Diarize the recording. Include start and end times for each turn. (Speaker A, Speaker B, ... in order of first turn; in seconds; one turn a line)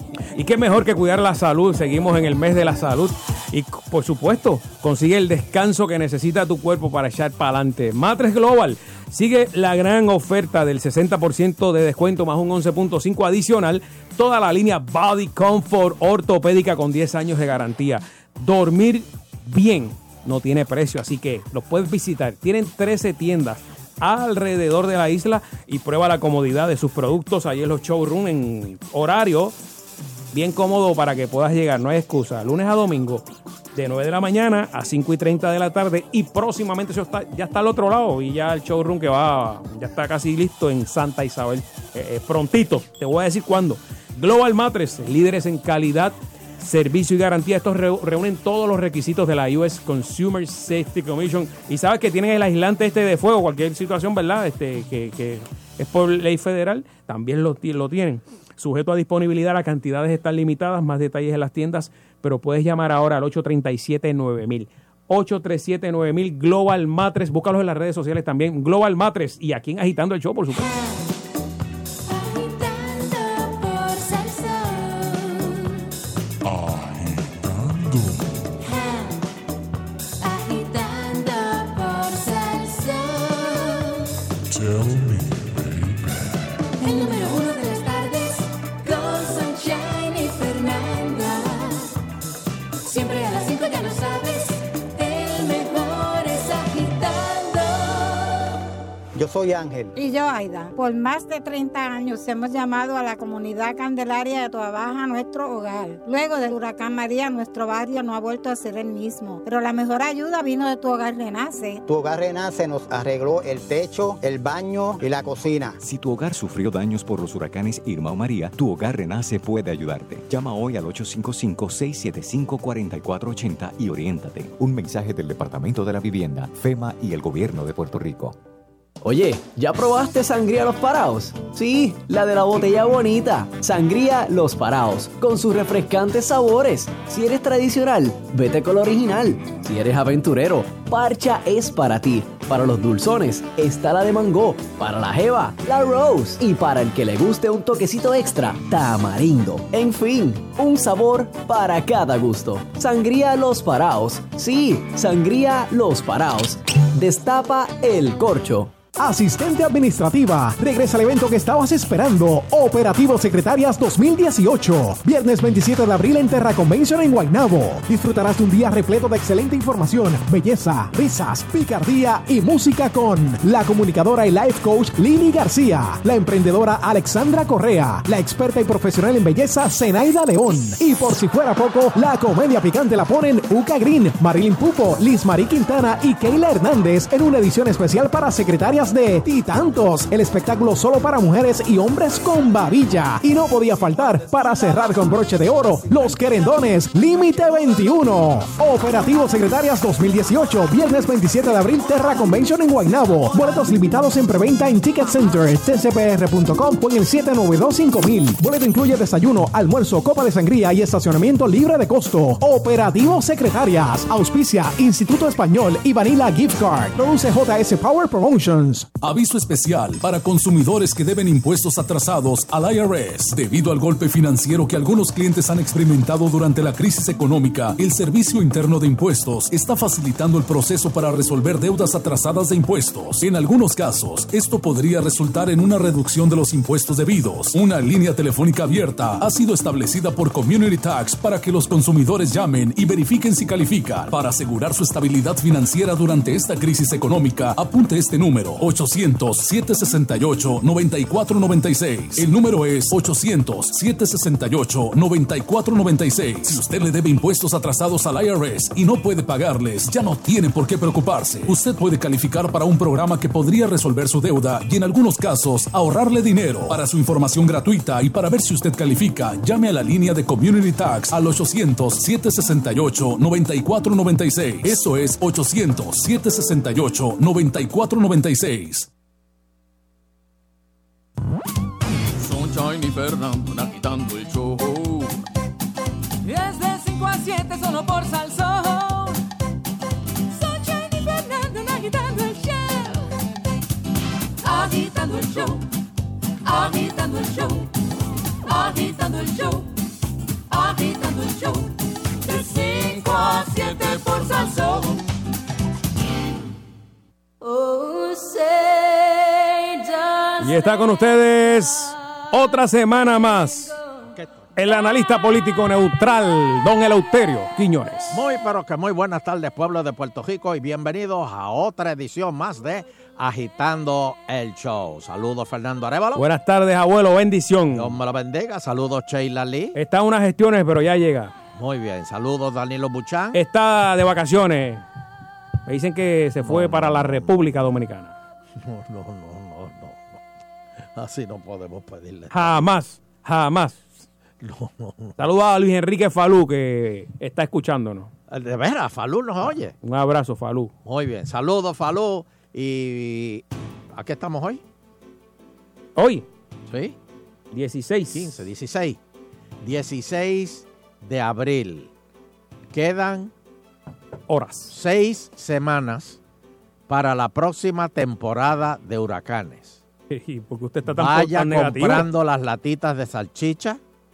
Speaker A: 0.3-29.5
Speaker A: 30.3-33.2
Speaker A: 33.7-70.7
Speaker B: 70.6-71.0
Speaker B: 72.1-75.8
Speaker C: 76.4-78.3
Speaker B: 78.6-79.2
Speaker B: 80.2-84.1
Speaker C: 84.5-86.2
Speaker B: 86.8-91.9
Speaker B: 92.8-98.6
Speaker D: 99.1-99.9
Speaker E: 100.0-111.8
Speaker D: 111.9-115.8
Speaker F: 115.8-128.3
Speaker G: 129.0-158.8
Speaker H: 158.9-218.9
Speaker I: 219.0-278.9
Speaker J: 282.2-285.2
Speaker B: 286.2-289.2
Speaker B: 290.3-293.1
Speaker B: 294.4-295.6
Speaker B: 296.4-297.7
Speaker B: 298.5-299.7
Speaker B: 300.5-305.0
Speaker J: 302.8-304.5
Speaker B: 307.4-310.8
Speaker A: 310.4-313.7
Speaker K: 314.2-314.4
Speaker A: 314.6-318.2
Speaker K: 318.1-326.2
Speaker A: 326.1-327.9
Speaker K: 327.7-329.8
Speaker A: 329.7-331.3
Speaker K: 331.6-333.4
Speaker A: 333.3-334.8
Speaker A: 335.7-338.1
Speaker K: 336.4-337.4
Speaker K: 338.6-340.2
Speaker K: 340.9-342.6
Speaker A: 342.3-344.0
Speaker K: 344.4-345.2
Speaker A: 345.2-348.1
Speaker K: 348.3-349.7
Speaker A: 349.8-350.7
Speaker K: 350.8-354.6
Speaker A: 356.0-356.2
Speaker K: 356.7-356.9
Speaker A: 357.5-358.4
Speaker K: 358.1-359.0
Speaker K: 359.6-361.9
Speaker K: 362.7-363.3
Speaker A: 364.3-364.7
Speaker K: 364.7-366.2
Speaker K: 366.9-369.8
Speaker A: 370.1-372.1
Speaker K: 370.9-373.8